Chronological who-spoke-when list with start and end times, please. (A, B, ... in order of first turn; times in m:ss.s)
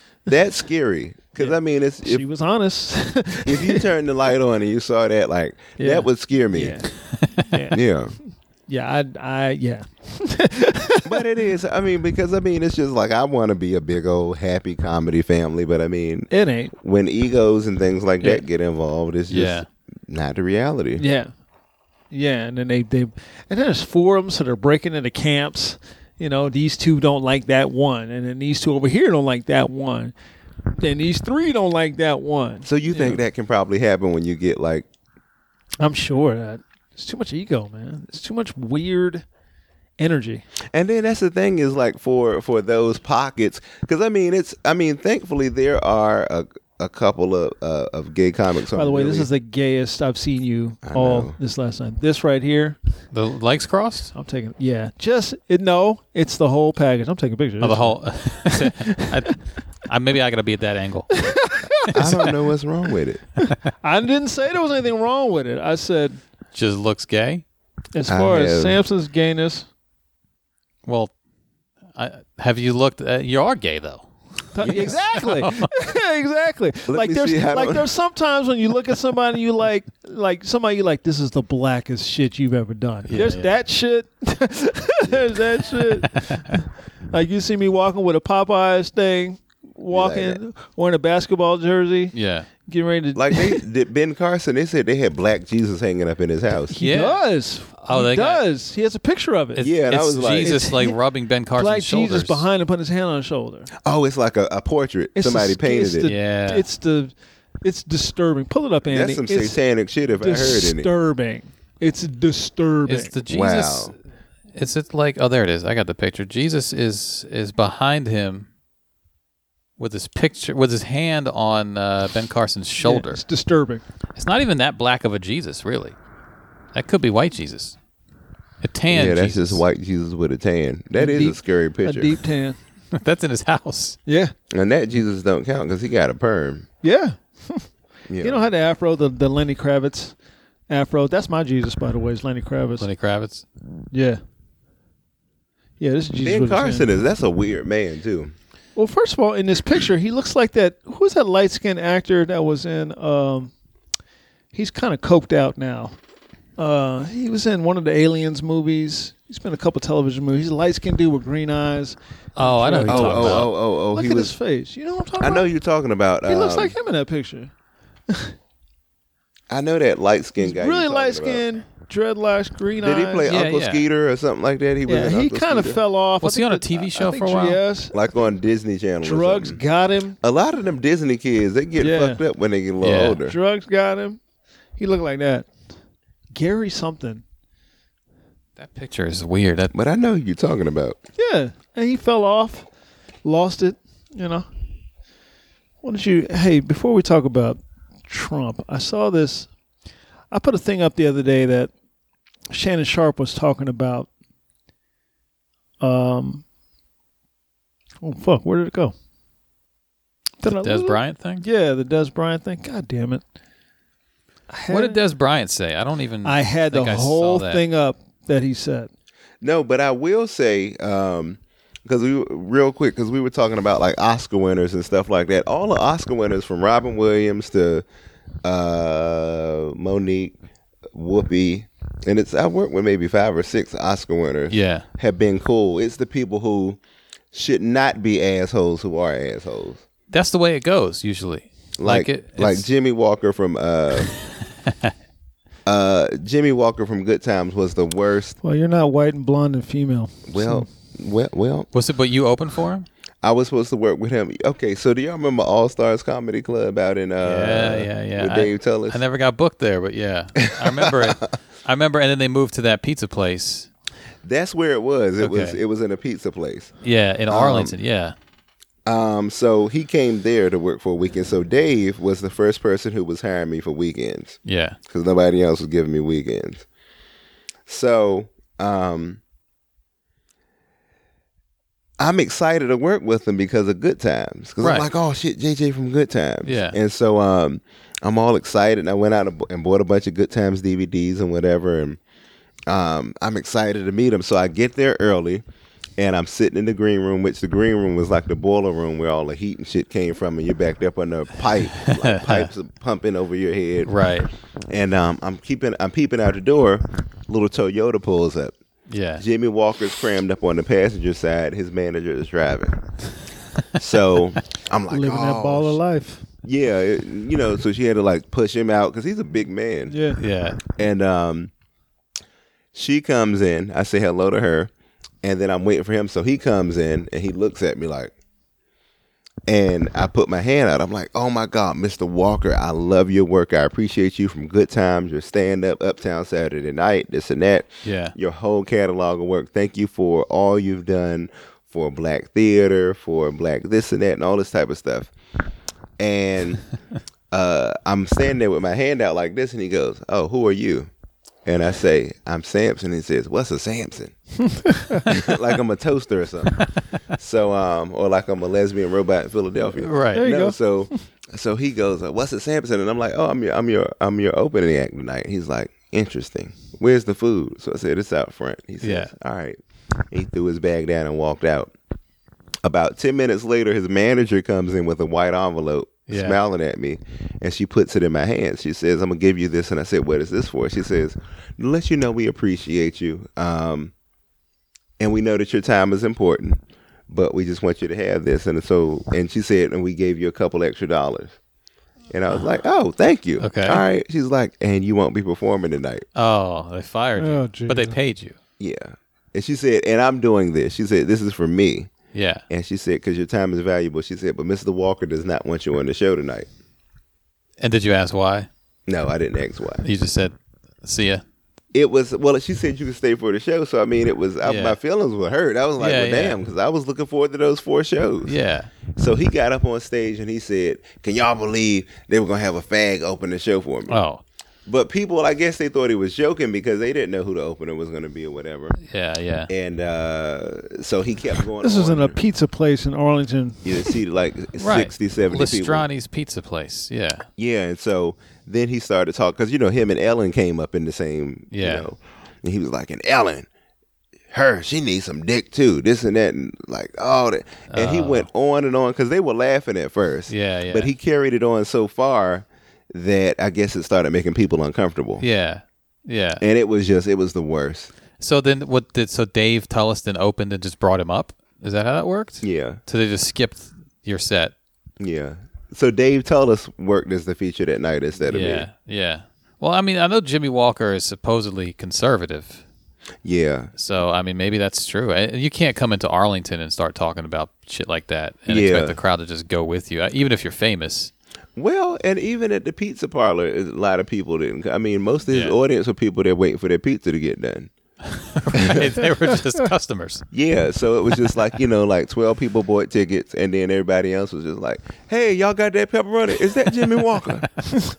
0:00.3-0:02.2 A
0:01.4-0:03.9 B
0:03.5-0:06.8 A
0:05.8-0:07.8 B
0:07.7-0:08.2 A
0:08.7-0:11.2 B
0:11.0-0:21.0 A
0:16.3-0:16.7 B
0:19.3-0:19.7 C
0:21.0-0:21.3 B
0:22.1-0:30.1 B
0:30.8-0:33.2 B
0:32.6-0:34.9 A
0:35.8-0:39.2 B
0:40.0-0:40.5 B
0:40.7-0:49.3 A
0:48.7-0:52.8 B
0:50.8-0:51.4 A
0:53.1-0:54.1 C
0:54.2-0:59.1 B
0:57.6-1:01.3 C
1:01.1-1:02.3 B
1:01.9-1:03.3 A
1:03.4-1:06.2 B
1:06.5-1:07.4 C
1:07.9-1:09.7 B
1:08.1-1:08.8 A
1:10.9-1:11.1 C
1:12.0-1:14.1 C
1:14.5-1:32.2 B
1:14.6-1:15.0 A
1:14.8-1:15.7 C
1:16.9-1:17.9 A
1:23.1-1:23.5 C
1:29.9-1:30.4 A
1:32.1-1:32.5 C
1:32.7-1:33.6 B
1:33.2-1:36.7 A
1:36.7-1:39.7 B
1:36.8-1:38.4 C
1:39.6-1:42.4 C
1:39.6-1:40.6 A
1:40.4-1:41.0 B
1:41.6-1:43.7 B
1:43.8-1:46.1 A
1:45.2-1:49.6 B
1:46.1-1:46.7 C
1:48.9-1:50.9 A
1:50.2-1:53.1 B
1:52.9-1:54.0 C
1:53.3-1:53.9 A
1:54.5-1:58.5 C
1:59.8-2:03.2 C
2:02.8-2:03.8 B
2:04.2-2:06.0 C
2:06.7-2:07.8 C
2:08.6-2:09.6 C
2:08.9-2:12.2 A
2:11.0-2:12.6 B
2:12.9-2:14.0 C
2:14.1-2:14.3 B
2:14.5-2:16.7 A
2:16.8-2:17.7 B
2:18.1-2:18.4 A
2:18.2-2:20.2 B
2:20.7-2:22.9 B
2:22.8-2:23.4 C
2:23.9-2:24.2 B
2:25.8-2:26.9 B
2:26.2-2:28.3 A
2:28.8-2:33.5 B
2:34.5-2:36.0 B
2:36.6-2:45.5 B
2:42.4-2:43.5 C
2:42.9-2:44.3 A
2:45.2-2:46.8 A
2:46.2-2:47.5 B
2:48.1-2:48.3 B
2:49.5-2:51.4 A
2:50.4-2:53.3 B
2:52.8-2:55.8 A
2:53.3-2:53.8 C
2:54.9-2:58.0 B
2:56.2-2:57.6 C
2:57.9-2:59.6 A
2:59.0-3:00.2 B
3:00.2-3:03.4 A
3:01.8-3:02.2 B
3:02.8-3:03.2 C
3:03.3-3:04.2 B
3:04.8-3:05.5 B
3:06.4-3:07.2 B
3:08.6-3:09.7 C
3:09.7-3:11.0 A
3:11.2-3:12.7 B
3:13.2-3:14.5 B
3:15.8-3:19.5 B
3:20.3-3:21.7 B
3:22.5-3:24.1 B
3:25.8-3:26.4 B
3:28.0-3:29.0 B
3:30.4-3:33.2 B
3:30.4-3:31.4 C
3:34.5-3:35.0 B
3:34.7-3:37.6 C
3:36.2-3:38.9 B
3:39.4-3:47.8 A
3:48.4-3:50.4 A
3:50.9-3:56.8 A
3:54.5-3:54.8 C
3:57.3-3:59.8 A
4:00.1-4:02.7 C
4:01.8-4:04.1 A
4:04.7-4:04.9 C
4:05.7-4:08.4 A
4:08.4-4:10.7 B
4:10.3-4:11.7 A
4:11.7-4:12.9 C
4:13.2-4:19.0 A
4:17.2-4:23.7 C
4:20.5-4:21.2 A
4:24.2-4:26.7 A
4:25.2-4:25.6 C
4:26.8-4:28.2 C
4:27.3-4:27.8 A
4:28.9-4:34.4 A
4:34.5-4:34.8 C
4:34.9-4:36.7 A
4:37.7-4:39.2 A
4:42.0-4:52.0 A
4:44.6-4:44.9 C
4:46.4-4:46.8 C
4:52.7-4:55.4 A
4:56.0-5:03.9 A
5:02.0-5:02.5 C
5:03.8-5:04.3 C
5:04.7-5:08.6 A
5:08.9-5:09.2 C
5:09.2-5:12.8 A
5:13.8-5:15.8 A
5:14.9-5:16.3 B
5:16.4-5:20.0 A
5:19.9-5:20.2 B
5:20.2-5:20.6 C
5:20.8-5:21.5 A
5:22.7-5:24.7 A
5:25.2-5:28.1 A
5:29.5-5:45.1 A
5:37.8-5:38.2 C
5:46.0-5:46.6 A
5:47.3-5:50.9 A
5:51.4-5:54.1 A
5:54.4-5:55.1 B
5:55.1-5:56.6 A
5:57.2-6:11.7 A
5:59.8-6:00.2 C
6:00.2-6:00.6 B
6:08.8-6:09.1 C
6:12.6-6:23.9 A
6:16.1-6:16.4 C
6:25.0-6:31.4 A
6:32.1-6:36.0 A
6:33.4-6:33.8 C
6:36.2-6:38.4 C
6:37.2-6:38.0 B
6:38.6-6:41.9 A
6:42.1-6:42.4 C
6:42.5-6:46.5 A
6:47.6-6:48.5 C
6:48.9-6:49.8 A
6:49.8-6:51.2 C
6:51.7-6:58.3 A
6:54.4-6:54.8 C
6:55.8-6:56.4 C
6:58.2-6:58.7 C
6:59.0-7:04.0 A
7:03.9-7:04.2 C
7:04.7-7:08.8 A
7:08.8-7:09.5 C
7:09.5-7:12.2 A
7:11.6-7:13.9 B
7:13.6-7:15.9 A
7:14.6-7:17.3 C
7:17.4-7:23.5 A
7:21.5-7:21.9 C
7:24.3-7:35.2 A
7:27.7-7:28.3 C
7:30.3-7:30.9 C
7:35.2-7:36.4 C
7:36.4-7:37.9 A
7:38.2-7:44.5 C
7:42.4-7:42.8 A
7:45.0-7:48.7 A
7:48.3-7:52.6 C
7:53.2-7:53.7 A
7:53.8-8:01.1 C
7:58.5-7:59.0 A
8:01.6-8:07.7 A
8:05.3-8:05.6 C
8:08.0-8:10.2 C
8:08.5-8:08.9 A
8:10.3-8:17.5 A